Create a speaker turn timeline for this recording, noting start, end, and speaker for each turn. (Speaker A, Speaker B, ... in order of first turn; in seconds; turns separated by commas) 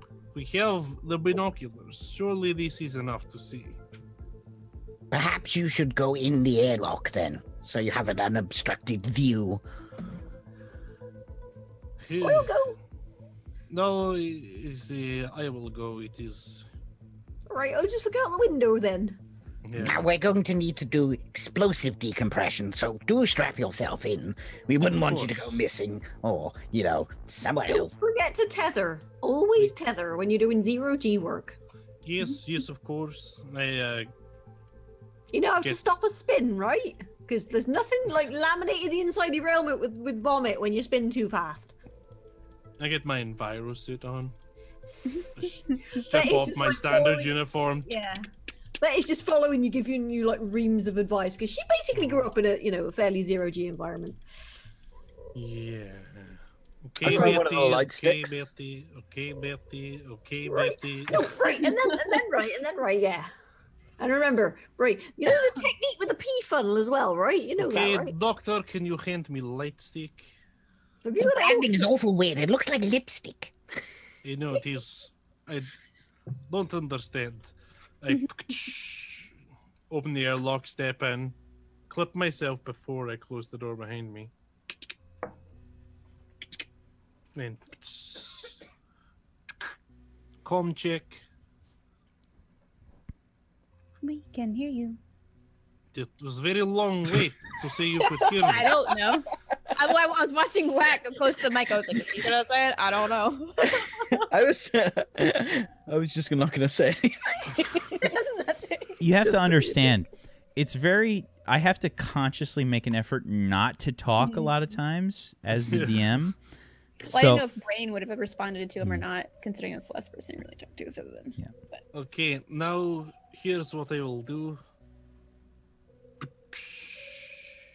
Speaker A: 0.3-3.8, Speaker B: 5.1-9.6, Speaker A: 12.0-12.7, Speaker C: 12.2-12.8, Speaker A: 13.7-16.7, Speaker C: 17.5-19.2, Speaker A: 19.6-20.1, Speaker B: 19.8-27.9, Speaker A: 24.9-25.6, Speaker C: 27.7-31.6, Speaker A: 32.0-34.1, Speaker C: 35.3-41.8, Speaker A: 42.8-44.3, Speaker A: 45.4-48.0, Speaker C: 46.0-47.3, Speaker C: 47.9-48.3, Speaker C: 48.8-54.2, Speaker A: 51.9-52.3, Speaker A: 55.4-61.4, Speaker D: 57.0-58.5, Speaker C: 57.1-57.4, Speaker C: 60.5-63.3, Speaker C: 64.0-68.2, Speaker A: 67.6-70.3, Speaker C: 71.0-71.8, Speaker B: 71.2-73.5, Speaker A: 74.2-75.7, Speaker A: 76.5-79.3, Speaker A: 79.9-81.4, Speaker A: 81.9-84.3, Speaker A: 87.3-88.6, Speaker A: 90.4-91.2, Speaker E: 94.0-95.0, Speaker A: 95.9-98.9, Speaker E: 98.2-104.2, Speaker D: 104.2-108.0, Speaker E: 108.0-108.9, Speaker F: 109.0-116.4, Speaker D: 109.3-109.8, Speaker E: 114.2-114.5, Speaker A: 115.6-116.1, Speaker F: 117.0-117.5, Speaker E: 117.0-121.8, Speaker A: 121.9-124.6, Speaker A: 126.2-127.5